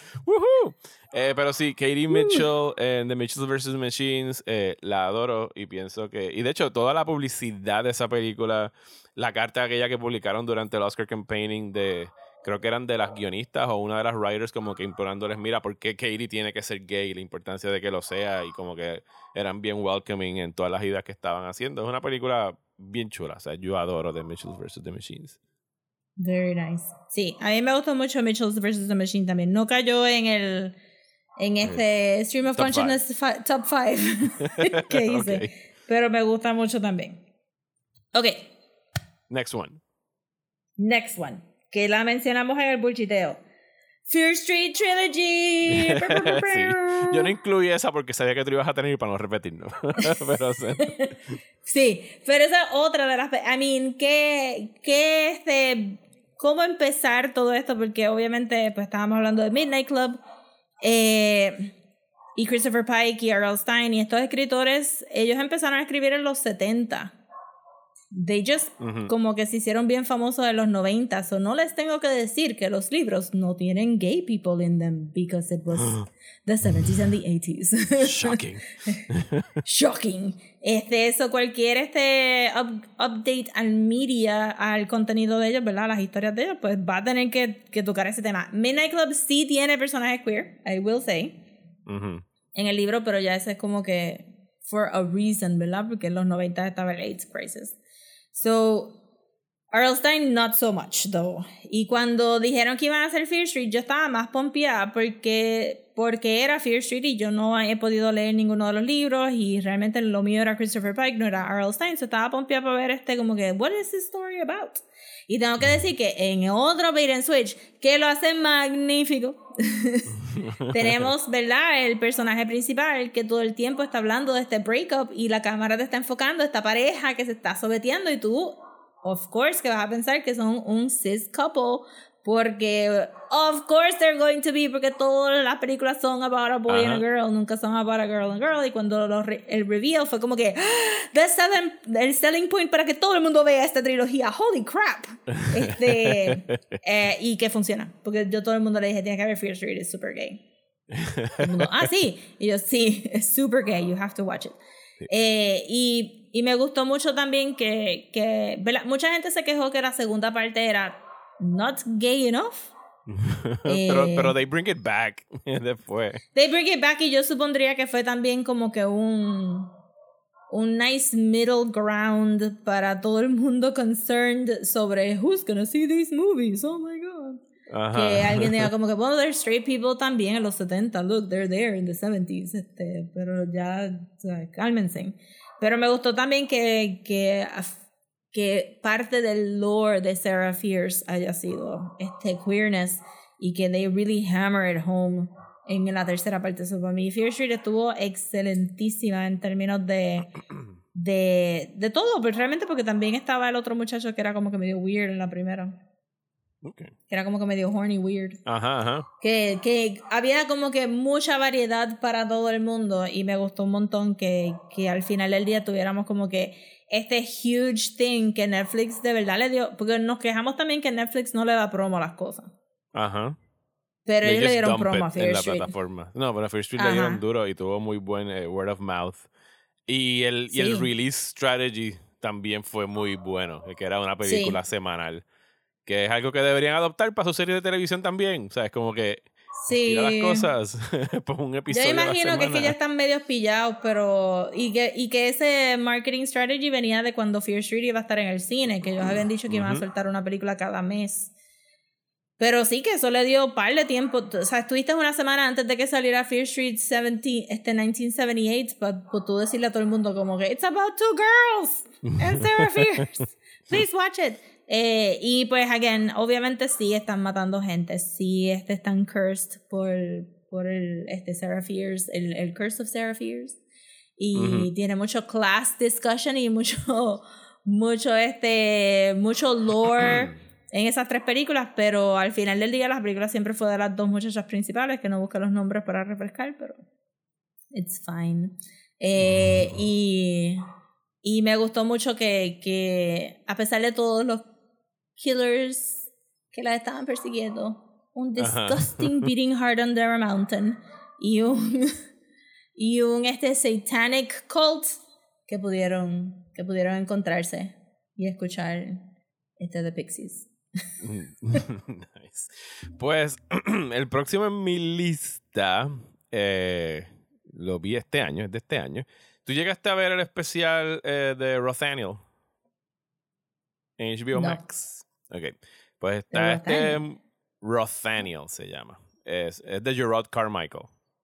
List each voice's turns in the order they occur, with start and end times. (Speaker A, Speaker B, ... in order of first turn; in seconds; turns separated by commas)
Speaker A: 0.2-25.4, Speaker B: 2.1-2.4, Speaker B: 26.2-30.8, Speaker B: 31.4-37.2, Speaker A: 32.5-33.0, Speaker A: 34.6-35.5, Speaker B: 38.1-38.5, Speaker A: 39.3-39.8, Speaker B: 40.8-43.4, Speaker B: 44.1-47.3, Speaker A: 45.7-51.4, Speaker B: 51.6-60.2, Speaker B: 60.8-61.7, Speaker B: 62.4-67.2, Speaker B: 68.1-78.4, Speaker A: 68.8-69.1, Speaker A: 78.0-79.5, Speaker B: 79.6-91.4, Speaker A: 91.8-92.2, Speaker B: 92.5-97.8, Speaker B: 98.3-99.0, Speaker B: 99.7-150.4, Speaker A: 120.3-121.1, Speaker A: 136.7-137.0, Speaker A: 145.4-146.5, Speaker A: 150.9-151.9, Speaker B: 151.4-154.6, Speaker B: 155.1-162.7, Speaker A: 163.1-166.2, Speaker B: 163.7-164.3, Speaker B: 166.3-169.7, Speaker B: 170.5-177.4, Speaker A: 177.7-178.7, Speaker B: 177.9-187.8, Speaker B: 188.3-200.3, Speaker B: 200.9-205.7, Speaker A: 206.6-206.9, Speaker B: 207.1-208.4, Speaker A: 208.4-209.1, Speaker B: 209.2-222.5, Speaker A: 222.9-223.4, Speaker B: 224.1-225.7, Speaker A: 224.2-229.3, Speaker B: 226.8-227.2, Speaker A: 229.9-235.2, Speaker B: 230.5-230.9, Speaker B: 234.2-234.6, Speaker A: 235.8-242.8, Speaker B: 239.6-240.5, Speaker B: 241.7-251.3, Speaker A: 249.5-249.8, Speaker B: 252.4-273.6, Speaker A: 262.1-262.9, Speaker B: 274.2-286.8, Speaker A: 274.3-274.7, Speaker A: 279.9-280.4, Speaker B: 287.7-290.6, Speaker A: 289.2-289.7, Speaker B: 291.2-294.5, Speaker B: 295.2-302.0, Speaker A: 298.4-299.3, Speaker B: 302.8-309.1, Speaker B: 309.6-310.5, Speaker A: 311.0-322.2, Speaker A: 324.0-330.9, Speaker B: 324.3-324.6, Speaker B: 326.3-327.0